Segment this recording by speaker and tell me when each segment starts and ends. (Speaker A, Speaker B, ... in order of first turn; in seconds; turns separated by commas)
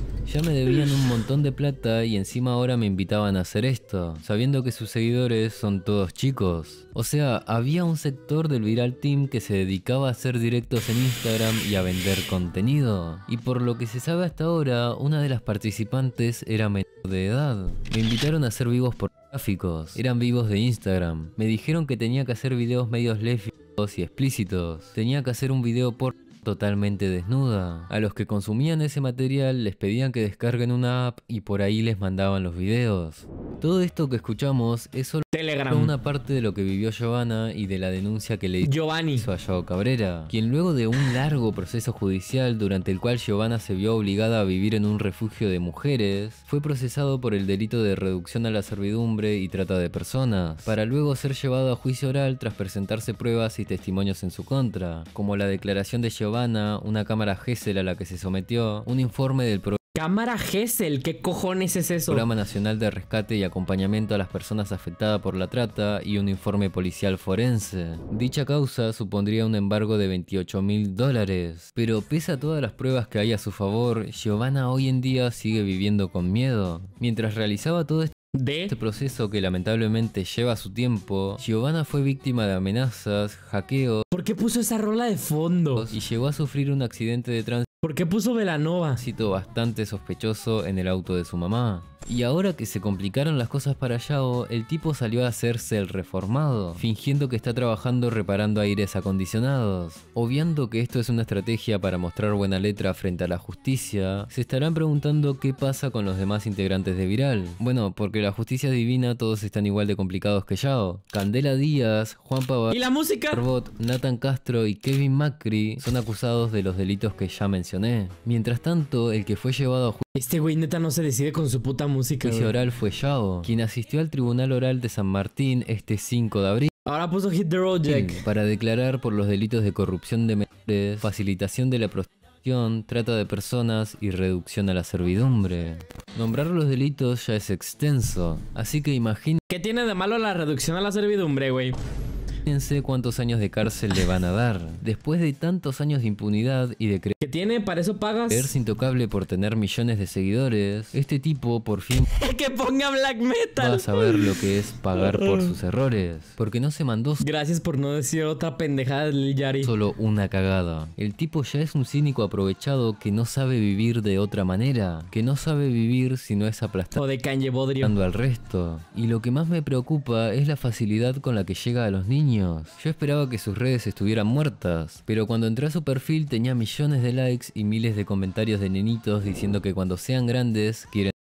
Speaker A: 0.2-59.8, Speaker B: 35.3-35.9, Speaker B: 38.6-39.2, Speaker B: 59.9-62.2, Speaker A: 62.1-78.1, Speaker B: 78.3-78.8, Speaker A: 78.7-84.0, Speaker B: 84.1-86.0, Speaker A: 85.8-87.7, Speaker B: 87.8-89.0, Speaker A: 89.0-120.0, Speaker B: 112.7-113.4, Speaker B: 120.1-122.5, Speaker A: 122.2-126.7, Speaker B: 126.8-128.2, Speaker A: 127.8-139.4, Speaker B: 139.5-141.8, Speaker A: 142.4-147.2, Speaker B: 147.2-148.5, Speaker A: 148.3-152.1, Speaker B: 152.1-154.4, Speaker A: 153.6-157.2, Speaker B: 154.9-155.5, Speaker B: 157.2-159.7, Speaker A: 159.6-167.0, Speaker B: 166.9-167.9, Speaker A: 167.8-181.1